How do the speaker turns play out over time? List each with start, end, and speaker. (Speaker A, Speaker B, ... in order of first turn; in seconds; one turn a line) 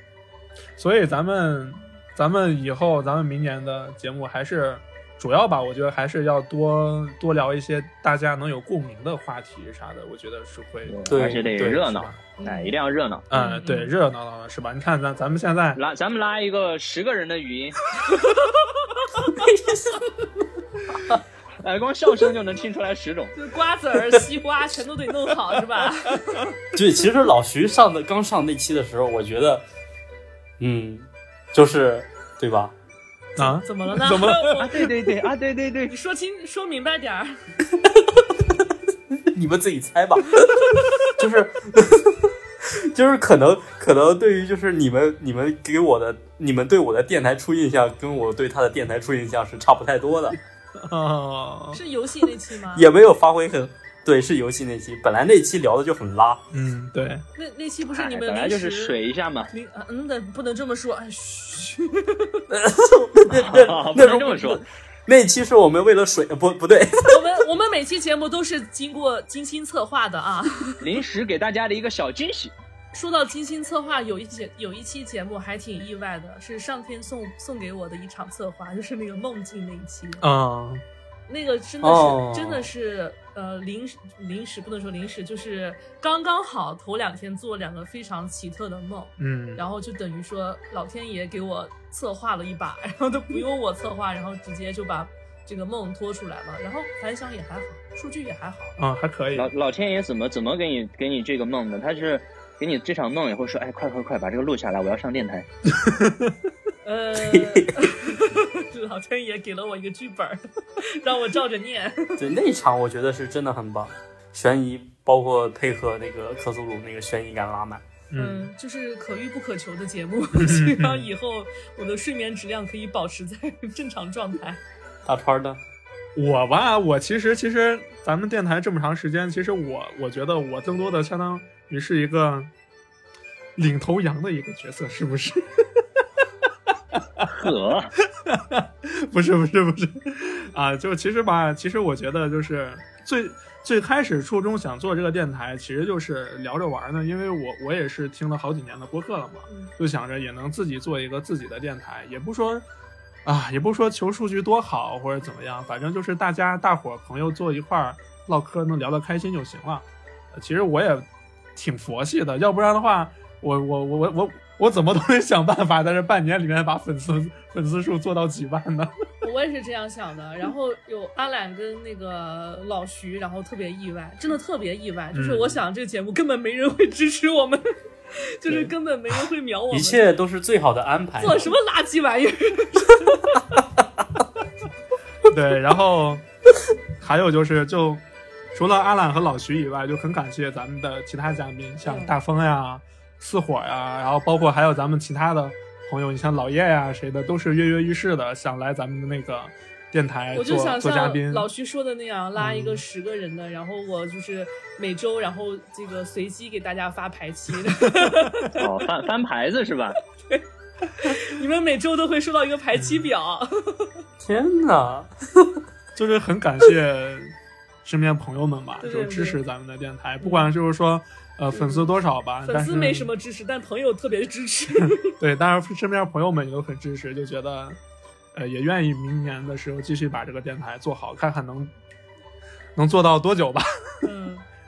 Speaker A: 0.8-12.2
Speaker B: 10.9-13.2
Speaker C: 11.1-11.9
Speaker D: 12.4-12.8
Speaker A: 13.3-15.8
Speaker D: 13.3-13.9
Speaker B: 15.8-17.8
Speaker D: 18.1-19.1
Speaker C: 19.3-20.0
Speaker B: 21.6-23.4
Speaker D: 23.3-26.5
Speaker C: 26.7-29.6
Speaker C: 30.6-32.7
Speaker A: 33.4-34.7
Speaker D: 33.4-34.9
Speaker B: 34.6-35.9
Speaker D: 35.9-37.4
Speaker C: 37.7-38.4
Speaker C: 39.3-50.4
Speaker A: 50.8-51.8
Speaker D: 51.7-52.9
Speaker C: 52.7-56.4
Speaker A: 56.5-57.2
Speaker D: 57.4-59.0
Speaker B: 57.9-59.5
Speaker D: 59.5-62.4
Speaker C: 62.5-67.3
Speaker B: 63.3-64.6
Speaker D: 67.1-70.9
Speaker B: 70.8-72.5
Speaker D: 72.9-80.2
Speaker A: 80.2-80.8
Speaker D: 81.3-98.8
Speaker C: 81.8-82.7
Speaker A: 89.2-89.6
Speaker A: 98.8-99.5
Speaker B: 99.3-105.5
Speaker A: 105.8-106.3
Speaker D: 106.8-112.2
Speaker C: 107.2-107.7
Speaker C: 112.2-117.8
Speaker A: 118.1-118.5
Speaker D: 118.2-124.6
Speaker A: 120.3-121.1
Speaker C: 125.0-125.6
Speaker A: 126.2-132.5
Speaker A: 133.6-135.5
Speaker B: 137.3-137.9
Speaker A: 138.3-152.7
Speaker D: 149.5-149.7
Speaker A: 153.2-168.9
Speaker D: 169.2-180.1
Speaker A: 175.1-175.6
Speaker C: 179.7-181.6
Speaker D: 181.2-183.4
Speaker A: 185.3-186.2
Speaker A: 187.0-188.0
Speaker A: 188.5-201.5
Speaker D: 191.8-192.1
Speaker D: 200.3-208.7
Speaker A: 202.4-202.8
Speaker A: 208.0-208.5
Speaker B: 208.6-210.0
Speaker D: 210.2-214.0
Speaker A: 212.8-213.1
Speaker C: 214.2-215.6
Speaker A: 216.0-223.1
Speaker D: 218.8-219.4
Speaker D: 220.2-220.5
Speaker D: 221.5-221.9
Speaker D: 222.4-225.1
Speaker A: 225.1-227.8
Speaker A: 228.3-231.7
Speaker A: 232.8-233.7
Speaker D: 234.0-234.4